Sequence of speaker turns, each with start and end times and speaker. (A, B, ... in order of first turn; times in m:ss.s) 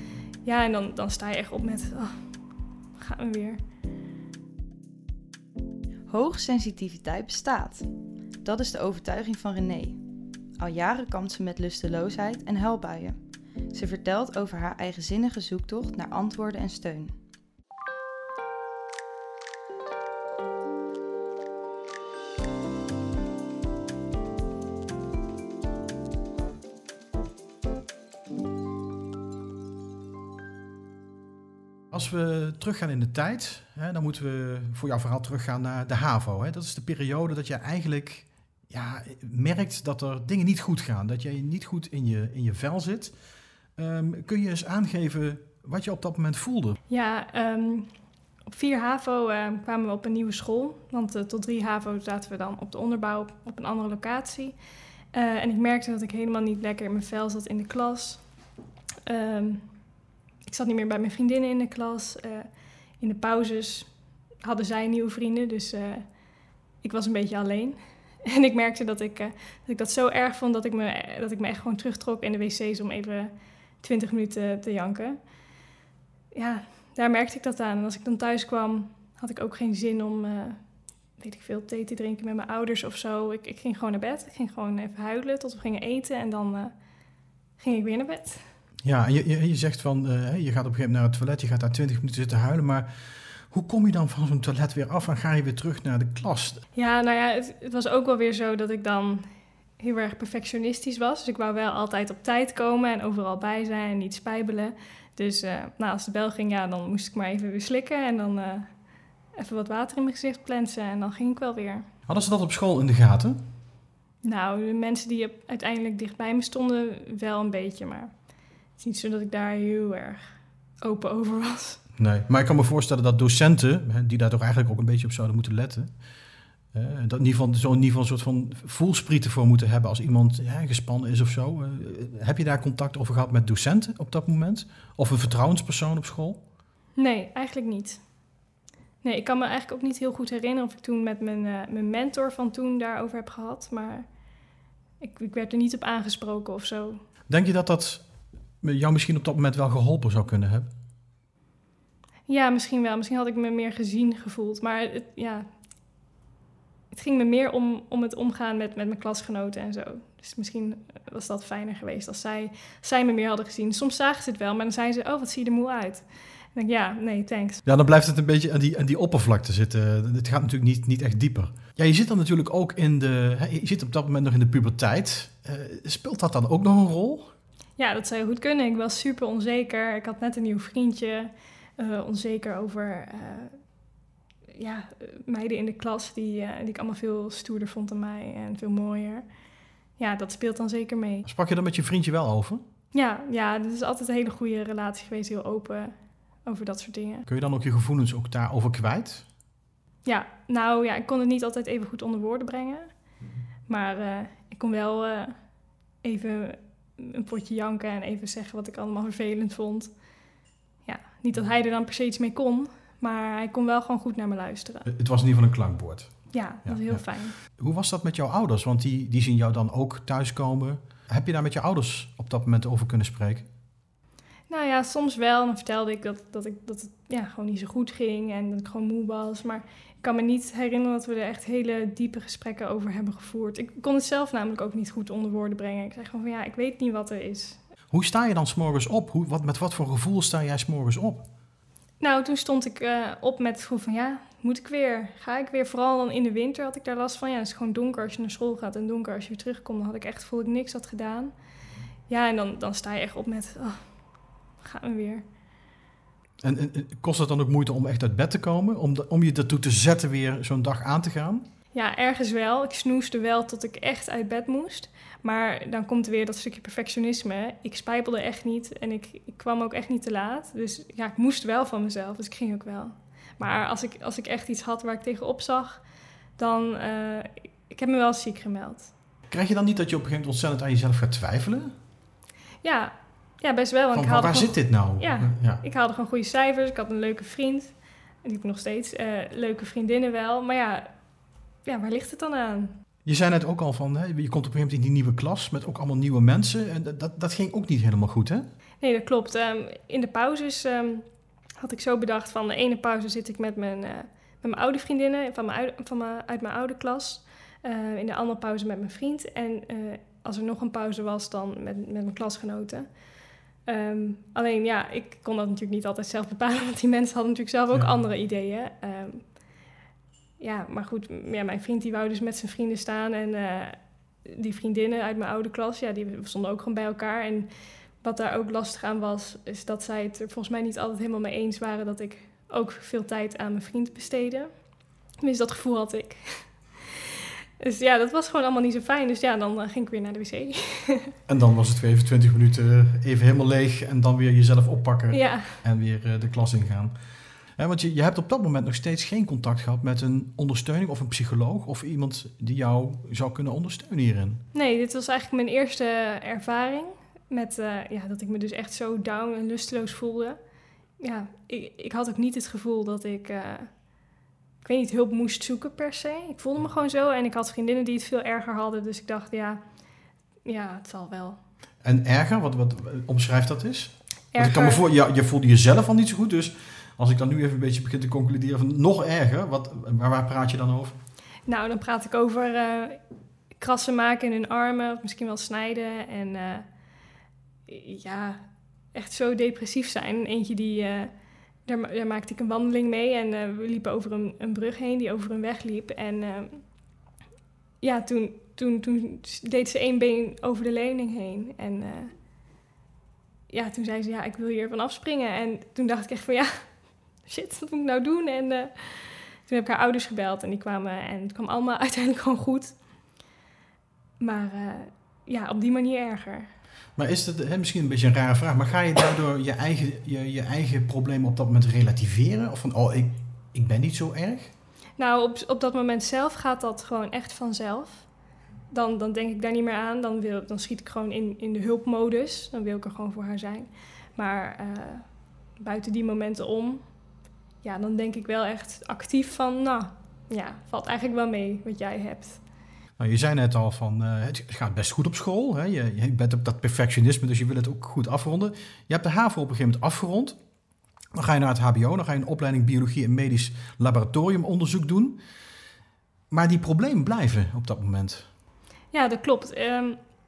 0:00.4-0:02.2 A
0:03.0-0:03.6 A
0:06.1-0:07.9 B
0:08.4-0:10.0 B
0:10.6-0:13.2 B
0:13.7-0:17.2 B
0:31.9-0:43.1 C
0:43.8-0:46.8 C
0:46.9-0:47.9 A
0:48.5-0:54.6 A
0:55.1-0:58.2 A
0:59.1-0:59.6 A
1:00.5-1:02.5 A
1:03.0-1:03.9 A
1:04.4-1:06.0 A
1:06.8-1:15.2 A
1:16.3-1:20.6 A
1:21.2-1:26.7 A
1:27.6-1:28.4 A
1:28.8-1:36.6 C
1:36.8-1:39.3 A
1:39.8-1:48.7 A
1:49.4-1:51.8 A
1:52.1-1:53.4 C
1:54.2-1:58.1 A
1:58.8-2:01.8 A
2:02.0-2:05.9 C
2:06.7-2:16.4 C
2:17.0-2:18.0 A
2:19.0-2:24.1 A
2:25.0-2:27.0 A
2:27.3-2:28.0 C
2:28.6-2:30.7 C
2:32.3-2:35.5 A
2:36.9-2:47.6 A
2:47.6-2:57.3 C
2:57.8-3:03.6 A
3:04.6-3:09.3 A
3:10.0-3:11.3 A
3:11.3-3:12.6 C
3:12.9-3:15.9 A
3:16.4-3:17.3 A
3:17.3-3:19.3 C
3:20.0-3:22.9 A
3:23.7-3:25.4 A
3:26.0-3:29.9 A
3:30.9-3:34.9 A
3:34.9-3:43.5 C
3:36.3-3:37.4 A
3:44.5-3:57.6 A
3:57.9-4:01.3 C
4:02.0-4:11.3 A
4:12.1-4:13.8 A
4:14.6-4:15.2 A
4:16.4-4:21.4 C
4:21.7-4:35.8 A
4:36.4-4:38.9 A
4:39.3-4:41.7 C
4:42.6-4:47.7 A
4:43.9-4:45.6 C
4:48.2-4:50.9 A
4:51.7-4:52.7 A
4:53.0-4:58.5 C
4:58.8-5:01.1 A
5:01.6-5:12.9 A
5:13.7-5:19.3 A
5:20.4-5:27.5 A
5:28.0-5:34.5 A
5:35.2-5:41.1 A
5:41.3-5:47.0 C
5:45.1-5:45.6 A
5:47.6-5:54.4 C
5:54.5-6:00.4 A
6:01.0-6:03.7 A
6:04.6-6:09.6 A
6:10.4-6:11.4 A
6:11.8-6:21.0 C
6:14.3-6:14.8 A
6:21.5-6:23.0 A
6:23.6-6:26.7 A
6:27.7-6:31.1 A
6:31.7-6:36.6 A
6:37.8-6:42.1 A
6:43.5-6:52.8 A
6:54.2-6:56.5 A
6:57.0-7:04.5 C
7:05.0-7:08.1 A
7:08.7-7:15.1 A
7:15.6-7:16.8 A
7:17.6-7:22.4 A
7:23.0-7:30.4 C
7:31.1-7:35.2 C
7:36.3-7:38.3 C
7:38.9-7:40.0 A